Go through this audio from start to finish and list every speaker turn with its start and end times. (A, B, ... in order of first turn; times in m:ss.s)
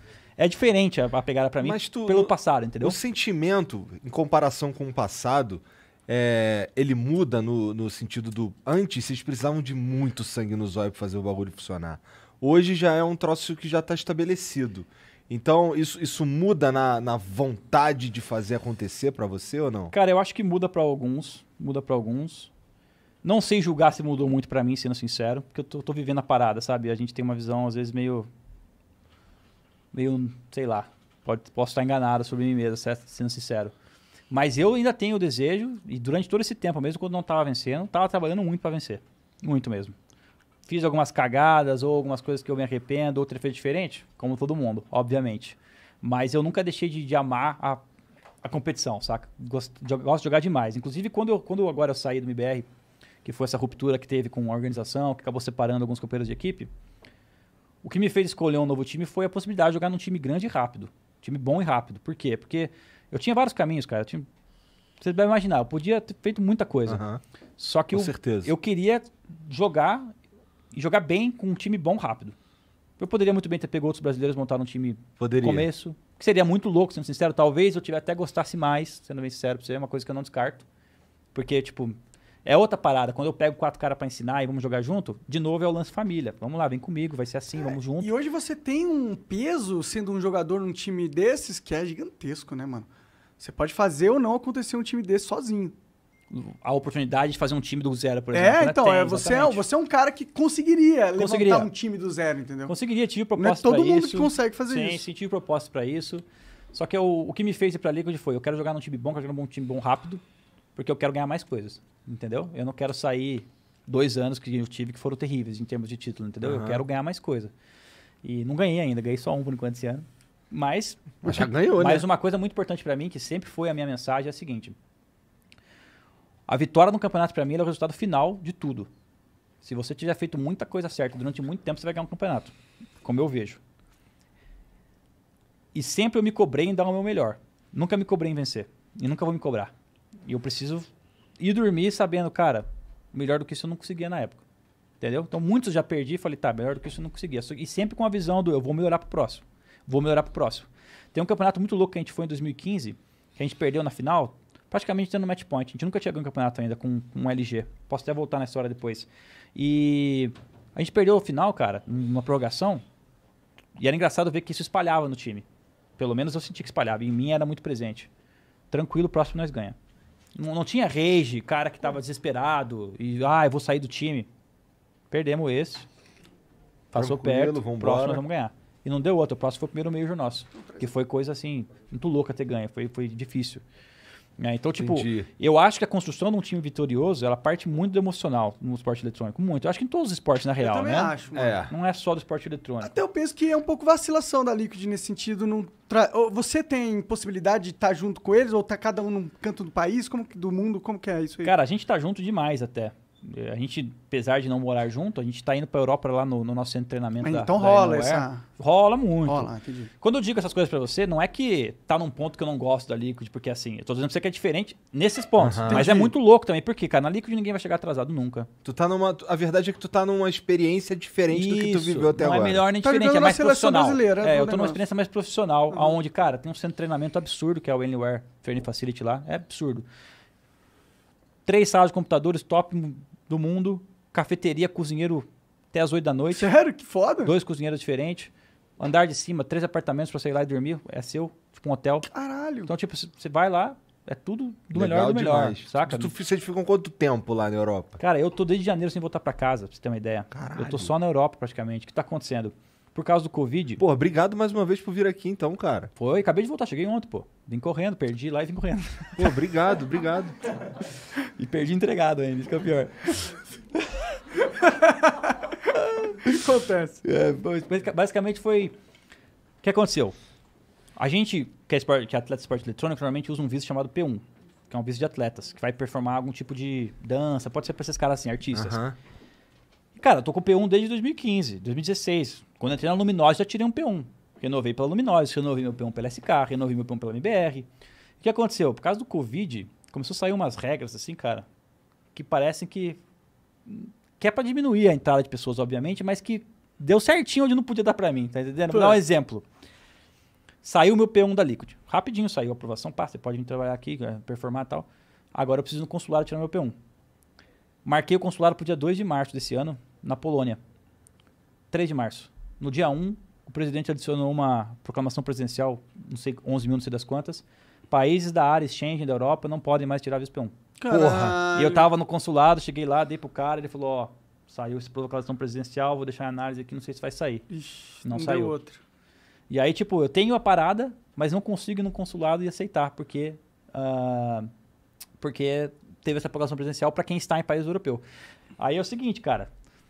0:00.4-0:03.0 A
0:01.6-0:19.9 B
0:19.9-0:22.5 A
0:23.2-0:28.3 A
0:29.9-0:33.7 A
0:34.3-0:40.0 A
0:40.7-0:47.8 A
0:48.4-0:52.7 A
0:53.2-0:56.7 A
0:57.8-1:04.3 A
1:05.0-1:07.0 A
1:06.9-1:07.2 B
1:07.6-1:10.1 A
1:07.9-1:08.5 B
1:10.7-1:12.4 A
1:13.0-1:20.6 A
1:15.2-1:15.7 B
1:21.3-1:28.1 A
1:27.6-1:32.9 C
1:33.4-1:35.7 C
1:36.3-1:39.6 A
1:38.3-1:42.7 C
1:41.2-1:41.7 A
1:42.7-1:50.2 A
1:43.4-1:45.0 C
1:50.8-1:57.5 A
1:56.4-1:56.8 B
1:58.2-2:04.8 A
2:01.2-2:02.0 B
2:06.5-2:08.9 A
2:09.6-2:13.6 A
2:15.7-2:19.7 A
2:20.2-2:20.9 A
2:21.4-2:24.4 A
2:25.0-2:42.8 A
2:43.8-2:45.4 A
2:46.0-2:48.1 A
2:48.7-2:49.8 A
2:50.4-2:54.3 A
2:55.1-2:55.8 A
2:56.9-3:03.6 A
2:56.9-2:58.2 B
3:04.4-3:12.9 A
3:04.8-3:05.3 B
3:10.6-3:11.6 C
3:11.3-3:11.7 B
3:12.8-3:21.5 C
3:21.4-3:38.5 A
3:27.2-3:28.4 C
3:29.2-3:29.9 C
3:35.4-3:35.9 B
3:35.7-3:36.1 C
3:38.6-3:42.6 B
3:41.3-3:49.8 A
3:42.8-3:44.8 C
3:51.4-3:56.5 A
3:56.4-3:57.3 C
3:57.2-4:02.1 A
4:02.1-4:02.7 C
4:02.7-4:06.1 A
4:04.7-4:08.0 B
4:08.0-4:13.8 A
4:10.3-4:10.9 B
4:13.8-4:15.9 B
4:16.0-4:19.3 A
4:19.2-4:20.3 B
4:21.4-4:24.2 A
4:24.6-4:25.3 C
4:25.7-4:26.2 A
4:26.2-4:27.0 C
4:27.0-4:28.7 A
4:29.6-4:30.2 A
4:31.0-4:38.8 A
4:38.5-4:39.0 B
4:39.9-4:47.7 A
4:48.2-4:51.4 A
4:52.1-4:53.0 A
4:53.6-4:59.4 A
4:58.7-4:59.0 C
5:00.6-5:06.7 A
5:07.8-5:10.6 A
5:11.7-5:27.4 A
5:20.8-5:21.9 C
5:20.9-5:21.3 B
5:27.5-5:28.8 C
5:28.0-5:28.5 A
5:29.5-5:34.5 A
5:35.2-5:38.0 A
5:38.6-5:39.5 A